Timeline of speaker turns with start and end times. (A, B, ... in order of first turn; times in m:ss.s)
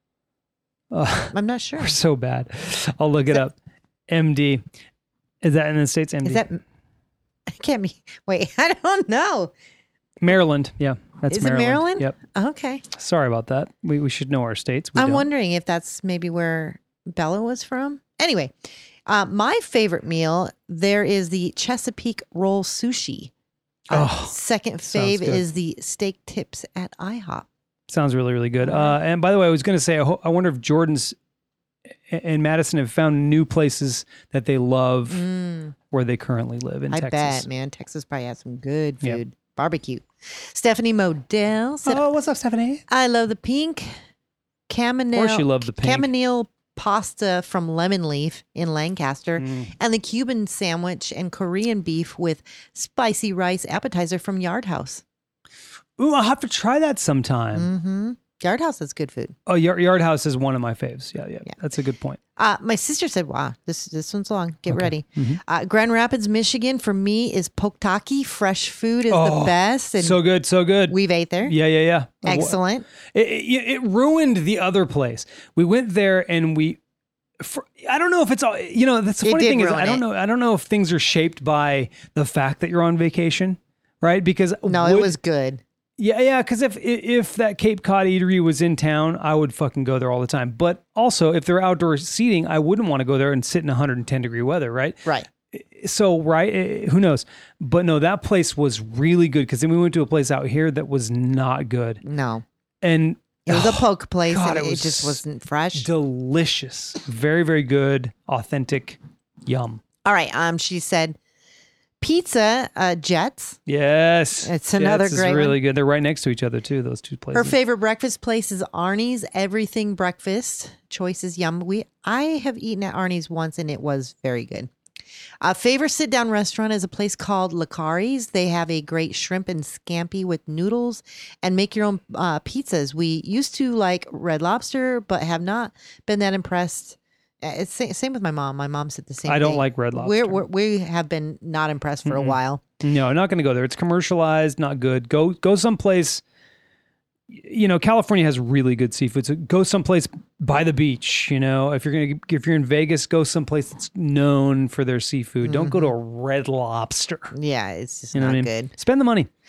0:00.9-0:03.5 A
0:01.3-0:02.0 B
0:04.1-0:04.6 A
0:05.4-0:06.4 A
0:06.2-0:06.6 B
0:07.5-0:09.5 B
0:10.2-0:12.1 A
0:11.3-0:12.8 B
0:12.9-0:15.3 A
0:15.0-0:18.5 B
0:19.1-0:23.3 B
0:23.9-0:27.5 B
0:23.9-0:24.3 A
0:24.9-0:25.4 A
0:27.9-0:31.2 A
0:28.6-0:29.0 B
0:32.1-0:35.2 A
0:35.1-0:35.8 B
0:35.9-0:37.5 A
0:36.9-0:42.0 B
0:41.8-0:42.8 A
0:42.9-0:43.9 B
0:44.7-0:55.0 B
0:45.1-0:46.1 A
0:49.4-0:49.7 A
0:56.0-0:57.7 A
0:57.5-0:59.4 B
0:59.4-1:02.2 A
1:02.4-1:10.2 B
1:04.7-1:05.4 A
1:09.1-1:12.6 A
1:10.9-1:11.5 B
1:12.2-1:12.9 B
1:13.1-1:16.8 A
1:17.4-1:25.2 A
1:19.2-1:20.0 B
1:24.6-1:25.6 B
1:26.0-1:42.0 A
1:42.0-1:42.4 B
1:42.8-1:45.2 A
1:43.4-1:45.9 B
1:45.7-1:49.8 A
1:50.0-1:51.2 B
1:52.0-1:53.6 B
1:53.7-1:57.5 A
1:54.4-1:55.6 B
1:57.3-2:04.7 B
2:05.4-2:22.6 B
2:19.2-2:20.4 A
2:22.0-2:26.2 A
2:27.3-2:37.3 A
2:35.4-2:35.9 B
2:37.3-2:38.7 B
2:38.1-2:39.3 A